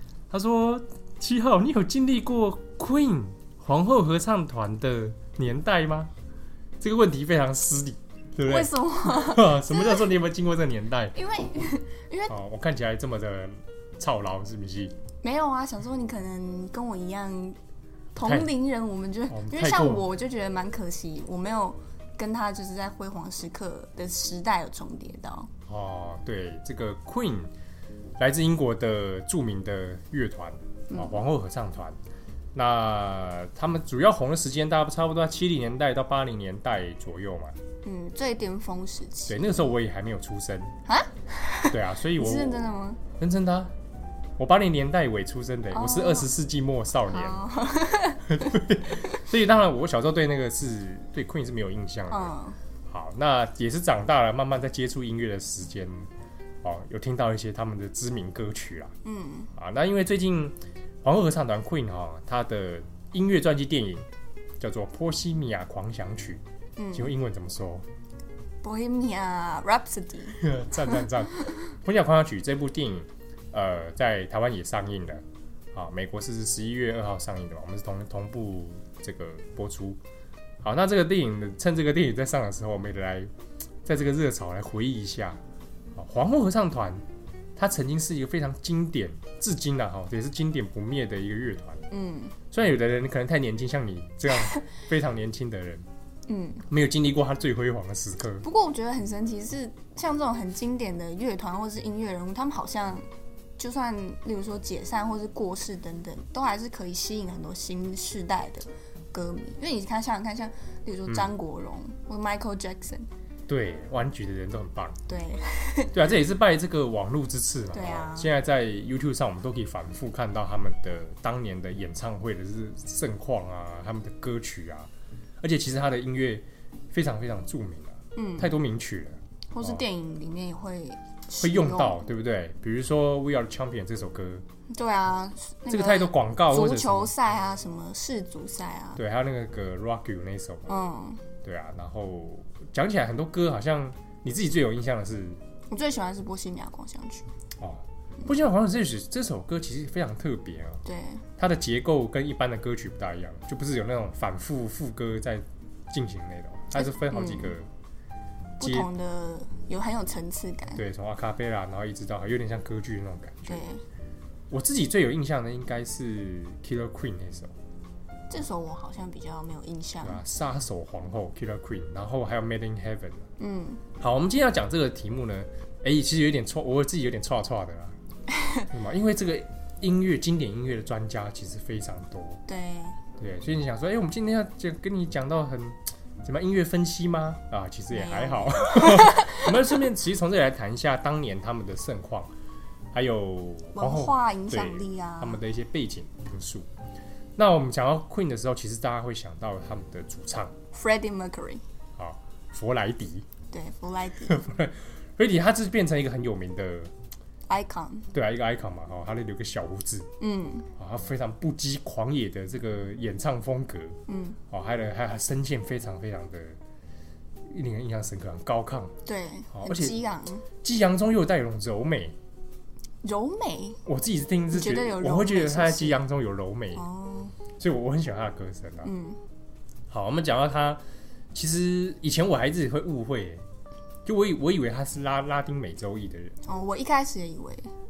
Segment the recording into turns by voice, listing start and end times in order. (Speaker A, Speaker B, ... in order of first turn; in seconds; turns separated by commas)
Speaker A: 0.3-6.1, Speaker A: 6.8-11.2, Speaker B: 8.4-10.1, Speaker B: 11.1-12.3, Speaker A: 12.3-14.9, Speaker B: 15.2-17.6, Speaker B: 18.1-25.5, Speaker A: 18.2-18.5, Speaker A: 19.3-20.1, Speaker A: 25.7-27.5, Speaker A: 28.2-32.0, Speaker B: 30.9-31.2, Speaker A: 32.5-37.6, Speaker B: 37.8-39.5, Speaker A: 39.3-40.7, Speaker B: 40.9-43.0, Speaker A: 41.7-42.6, Speaker A: 43.2-43.7, Speaker A: 44.4-47.4, Speaker B: 45.7-46.3, Speaker B: 47.1-48.5, Speaker A: 48.3-52.3, Speaker B: 52.1-52.6, Speaker A: 52.9-56.1, Speaker A: 56.6-58.9, Speaker B: 59.0-59.5, Speaker A: 59.5-64.1, Speaker A: 64.6-66.4, Speaker B: 66.8-67.1, Speaker A: 66.9-67.8, Speaker B: 68.6-71.1, Speaker A: 70.3-75.2, Speaker A: 75.7-80.0, Speaker A: 80.6-83.3, Speaker A: 83.8-85.4, Speaker A: 85.9-87.0, Speaker A: 87.5-91.8, Speaker B: 91.9-92.3, Speaker A: 92.5-95.8, Speaker B: 96.3-96.6, Speaker A: 96.7-98.4, Speaker B: 98.4-103.0, Speaker B: 103.6-113.0, Speaker A: 111.1-111.3, Speaker A: 113.5-115.0, Speaker B: 115.1-115.9, Speaker A: 115.9-124.9, Speaker B: 117.7-118.3, Speaker A: 125.4-129.8, Speaker B: 128.1-128.5, Speaker B: 129.5-132.1, Speaker A: 131.4-134.4, Speaker B: 134.7-139.0, Speaker A: 135.7-137.1, Speaker A: 138.9-140.7, Speaker B: 140.7-141.2, Speaker A: 141.4-145.4, Speaker B: 145.7-147.3, Speaker A: 147.6-150.8, Speaker B: 150.8-151.2, Speaker A: 151.4-157.7, Speaker B: 156.7-157.5, Speaker B: 158.6-160.8, Speaker A: 158.6-158.9, Speaker A: 160.7-163.7, Speaker B: 163.5-163.8, Speaker A: 164.5-167.5, Speaker B: 168.3-170.2, Speaker A: 170.0-173.3, Speaker B: 173.4-173.8, Speaker A: 174.0-178.0, Speaker A: 178.7-182.4, Speaker B: 182.5-183.0, Speaker A: 183.2-192.3, Speaker B: 187.9-189.4, Speaker A: 192.9-196.7, Speaker B: 193.7-195.4, Speaker A: 197.4-200.5, Speaker B: 200.7-201.6, Speaker A: 202.0-203.3, Speaker B: 203.5-204.4, Speaker A: 204.3-206.9, Speaker B: 207.5-208.1, Speaker A: 208.1-210.1, Speaker B: 210.2-210.7, Speaker A: 210.8-214.0, Speaker B: 214.1-214.4, Speaker A: 214.5-216.6, Speaker A: 217.5-218.9, Speaker B: 219.1-220.4, Speaker A: 219.5-219.9, Speaker A: 220.6-222.2, Speaker B: 223.0-223.8, Speaker A: 223.8-226.8, Speaker B: 224.5-226.0, Speaker B: 226.8-227.3, Speaker A: 227.6-228.9, Speaker B: 228.8-229.2, Speaker A: 229.9-230.8, Speaker A: 231.3-233.4, Speaker A: 234.0-236.4, Speaker B: 236.4-237.7